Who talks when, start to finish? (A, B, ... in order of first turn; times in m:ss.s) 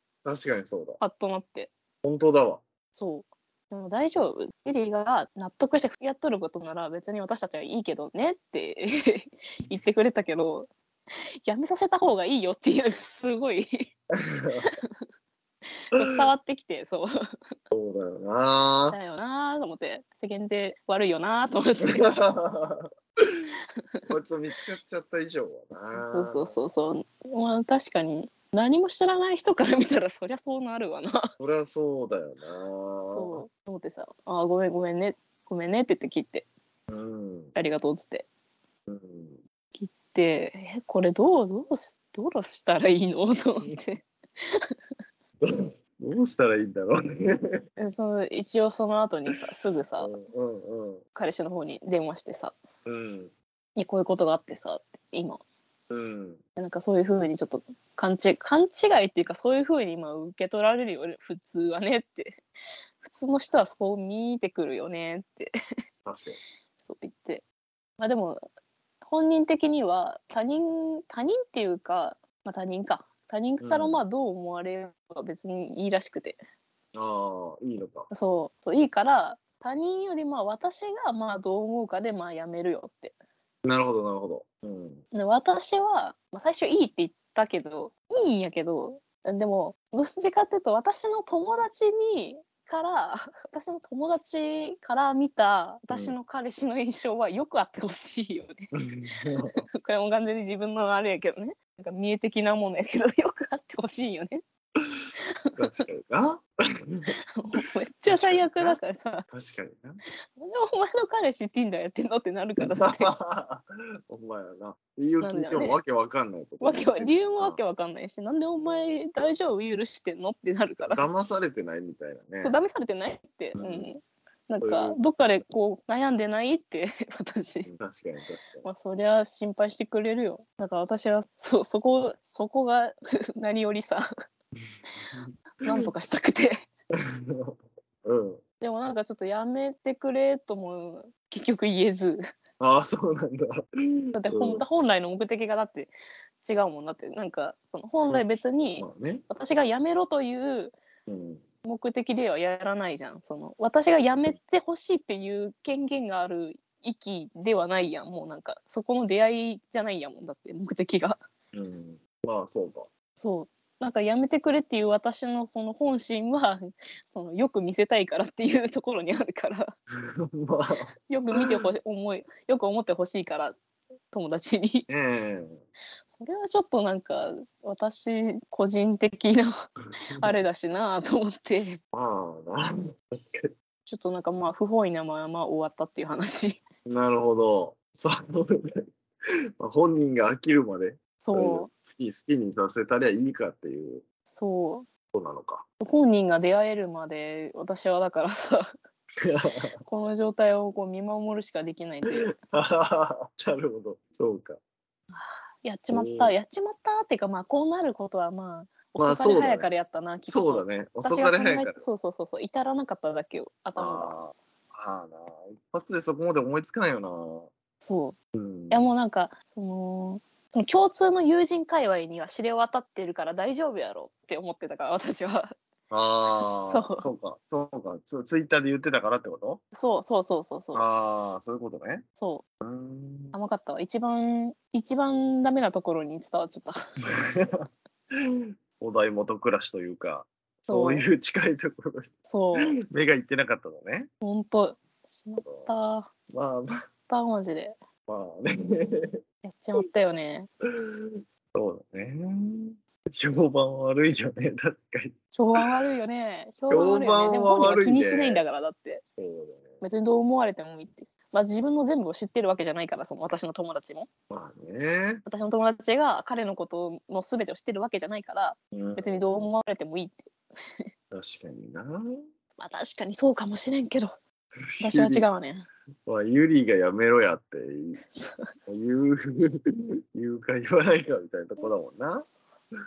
0:00.2-0:01.0 A
0:01.0-0:01.7 B
0:02.0-0:02.6 A
0:02.9-0:10.7 B
0:11.4-0:13.9 B
0:14.2-0:14.6 A
0:14.6-0:15.0 B
0:15.9-0:17.1 B
0:16.0-0:16.2 A
0:17.7-0:19.0 A
0:18.9-0:22.1 B
0:21.9-0:23.5 A
0:24.1-0:26.6 A
0:26.0-0:31.3 B
0:31.4-0:33.4 A
0:33.0-0:36.4 B
0:36.9-0:37.5 A
0:37.5-0:38.3 B
0:38.9-0:39.4 A
0:39.7-0:44.6 B
0:45.4-0:47.6 A
0:47.8-0:50.1 B
0:50.0-0:51.0 A
0:51.2-0:52.6 B
0:52.8-0:53.3 A
0:53.8-0:55.4 B
0:55.9-0:56.4 A
0:56.6-1:02.4 B
1:03.0-1:05.5 B
1:06.0-1:06.4 A
1:06.8-1:07.4 B
1:08.0-1:08.4 B
1:09.0-1:16.4 B
1:13.6-1:14.0 A
1:16.9-1:18.1 A
1:18.1-1:23.1 B
1:23.6-1:25.0 A
1:25.1-1:44.4 B
1:38.7-1:39.6 A
1:45.6-1:47.1 A
1:47.4-1:49.2 B
1:48.1-1:48.8 A
1:49.3-1:50.0 A
1:50.4-1:53.1 B
1:52.6-1:57.6 A
1:55.2-1:55.8 B
1:56.6-2:01.0 B
2:00.8-2:02.6 A
2:02.4-2:07.7 B
2:03.6-2:03.9 A
2:04.6-2:05.0 A
2:07.6-2:08.7 A
2:08.6-2:14.0 B
2:15.1-2:15.9 A
2:15.6-2:16.6 B
2:17.0-2:18.4 A
2:18.6-2:22.2 B
2:22.6-2:24.6 A
2:24.1-2:25.9 B
2:26.4-2:30.8 B
2:28.8-2:29.2 A
2:31.1-2:31.4 A
2:31.6-2:41.2 B
2:41.5-2:42.9 A
2:43.2-2:49.7 B
2:50.0-2:51.5 A
2:51.1-2:53.6 B
2:54.1-2:54.9 B
2:54.9-2:55.6 A
2:56.1-2:59.5 B
3:00.2-3:01.8 B
3:01.9-3:03.5 A
3:03.8-3:06.6 B
3:06.8-3:08.8 A
3:09.6-3:14.0 A
3:11.2-3:11.7 B
3:14.3-3:14.9 B
3:15.1-3:15.6 A
3:15.8-3:18.6 B
3:19.2-3:19.7 A
3:19.8-3:22.3 B
3:22.3-3:24.6 A
3:25.1-3:34.2 B
3:25.9-3:26.3 A
3:29.0-3:29.7 A
3:30.2-3:31.8 A
3:33.8-3:37.5 A
3:37.8-3:38.2 B
3:38.3-3:38.9 A
3:38.7-3:45.5 B
3:45.9-3:49.6 A
3:46.4-3:47.1 B
3:49.7-3:50.9 B
3:50.7-3:52.0 A
3:52.2-3:52.4 B
3:52.6-3:53.4 A
3:53.3-3:56.7 B
3:57.3-4:04.1 A
4:00.7-4:01.1 B
4:02.3-4:02.8 B
4:04.2-4:06.1 B
4:05.4-4:05.7 A
4:06.3-4:06.7 A
4:07.1-4:07.8 B
4:08.1-4:09.2 A
4:09.4-4:10.5 B
4:10.8-4:15.2 A
4:15.3-4:19.0 B
4:16.7-4:18.4 A
4:19.2-4:19.7 A
4:19.8-4:24.1 B
4:24.3-4:25.2 A
4:25.2-4:30.2 B
4:28.7-4:29.2 A
4:31.1-4:32.0 A
4:32.6-4:34.1 B
4:34.7-4:35.2 A
4:34.8-4:35.7 B
4:36.0-4:38.0 A
4:38.1-4:38.5 B
4:38.7-4:39.6 A
4:40.1-4:42.3 A